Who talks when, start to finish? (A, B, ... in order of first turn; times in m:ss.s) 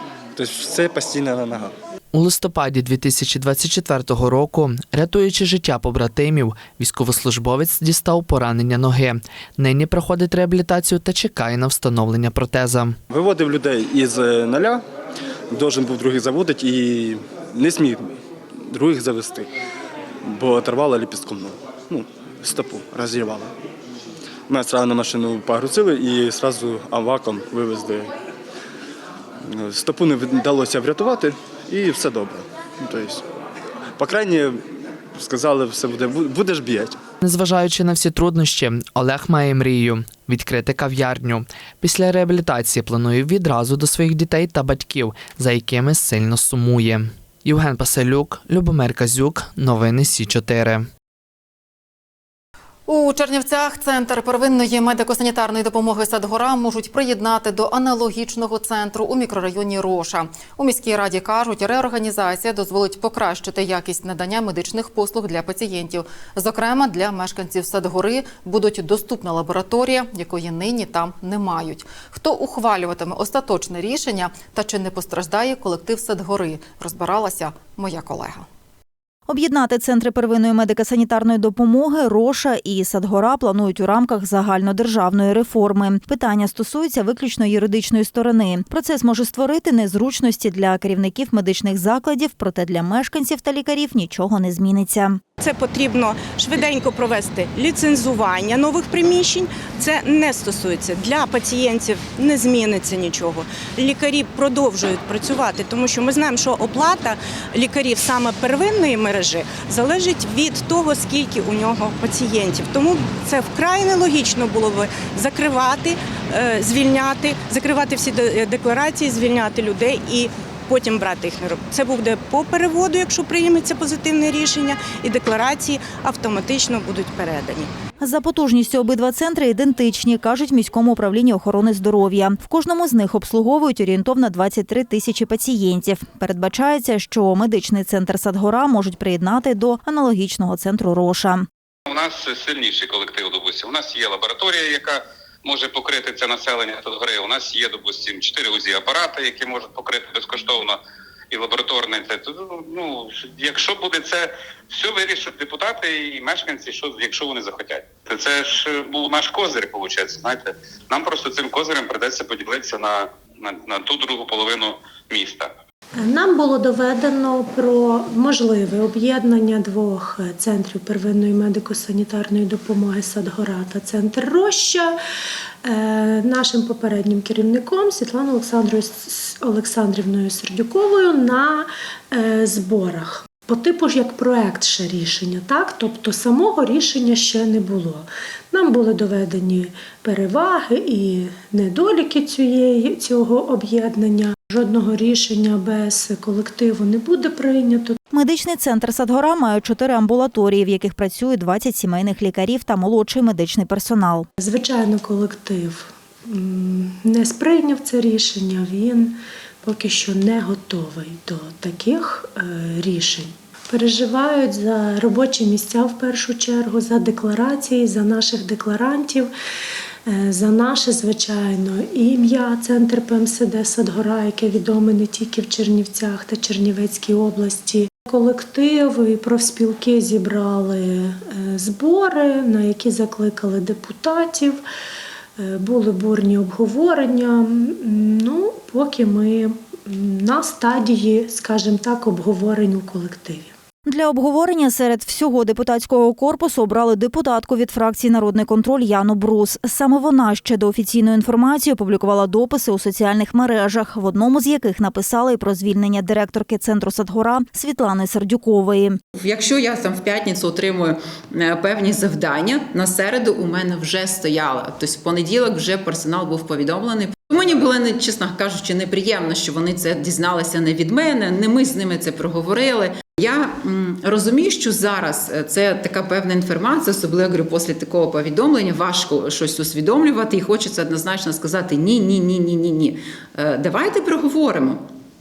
0:00.3-0:01.7 A
0:02.1-0:13.0 B
0:13.1-0:14.8 A
0:15.5-0:18.1 A
0:18.6-0:19.5 A
0:20.2-0:23.5 A
0:24.5-0:28.1 A
0:29.5-0:33.2 A
0:34.0-0:34.6 A
0:35.2-0:37.0 A
0:37.2-0:50.8 B
0:52.9-1:18.5 C
1:19.3-1:35.2 D
1:35.4-2:07.7 E
2:08.0-2:21.5 D
2:21.9-2:30.8 F
2:31.3-2:45.5 F
2:46.0-2:55.0 G
2:55.6-3:18.0 G
3:18.1-3:24.3 D
3:24.4-3:39.3 G
3:40.1-3:54.6 G
3:55.4-4:03.5 G
4:03.8-4:19.0 D
4:19.1-4:44.8 H